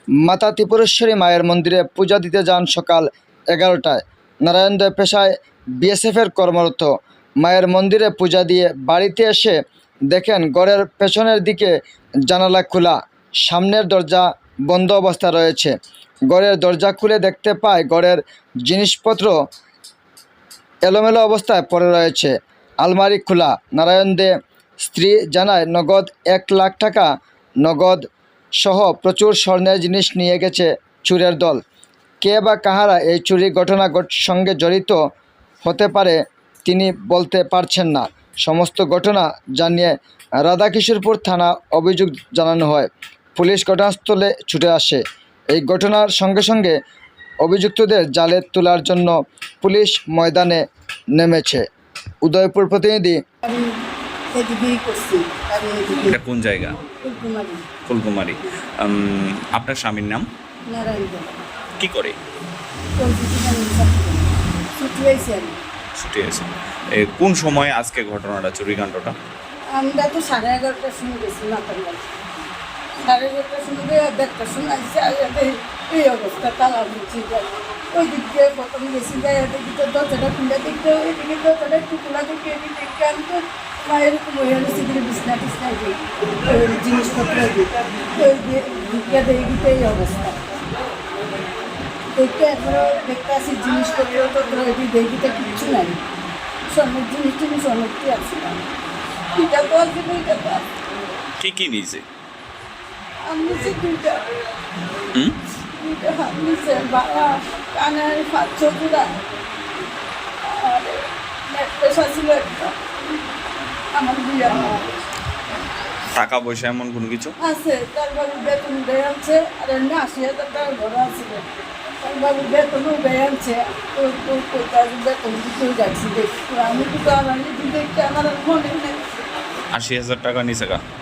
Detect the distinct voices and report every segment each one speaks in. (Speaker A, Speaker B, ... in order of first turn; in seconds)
Speaker A: 0.2-9.6, 10.1-11.7, 12.3-15.8, 16.3-19.3, 20.8-24.3, 24.9-27.1, 27.6-28.0, 28.6-31.6, 32.2-35.0, 35.6-45.0, 45.5-46.8, 47.4-50.6, 51.2-51.6, 52.2-53.2
Speaker B: 53.4-53.8, 54.3-56.1, 57.0-57.7, 60.7-61.4, 63.0-65.6, 69.7-72.2, 73.0-90.4, 92.2-96.0, 96.7-98.6, 99.3-100.7, 103.2-104.3, 105.7-109.1, 110.4-112.8, 113.9-114.9, 117.4-121.5, 122.0-129.0
Speaker C: 56.1-56.8, 57.9-60.3, 61.8-62.2, 66.0-69.1, 101.4-102.0, 116.2-117.3, 129.7-130.8